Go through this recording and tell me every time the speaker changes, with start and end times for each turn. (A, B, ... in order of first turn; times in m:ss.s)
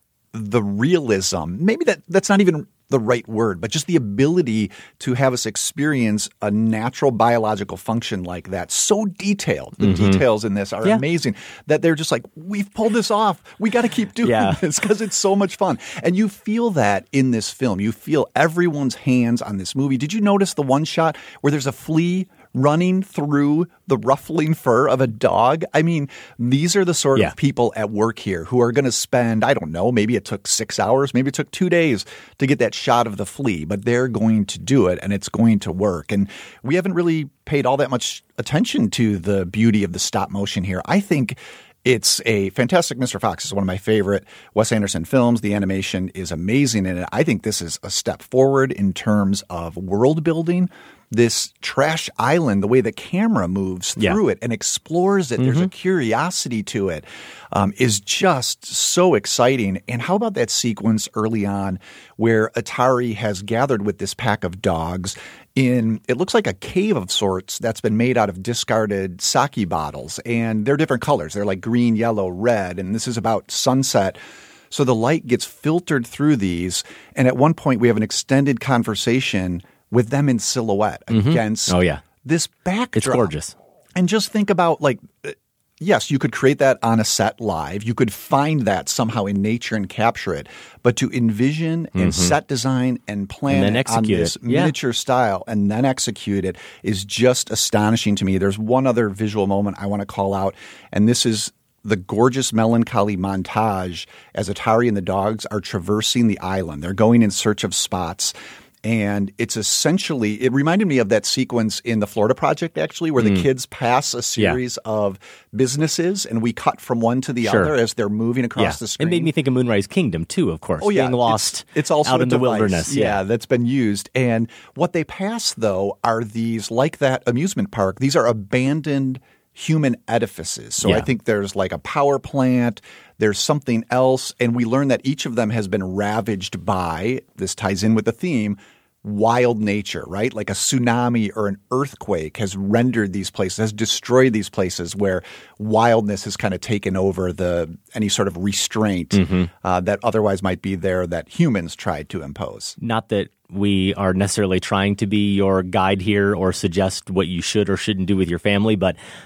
0:00.3-1:14.2 A
0:09.8-0:10.2 B
0:14.2-0:14.6 B
0:55.4-0:55.7 B
1:14.7-1:23.3 A
1:21.1-1:22.0 B
1:23.0-1:23.5 B
1:23.9-1:59.3 A
1:31.9-1:32.3 B
1:33.5-1:34.7 B
1:53.2-1:53.4 B
1:57.4-1:57.7 B
1:58.6-2:03.2 B
2:00.8-2:32.8 A
2:29.1-2:29.5 B
2:32.8-2:39.0 B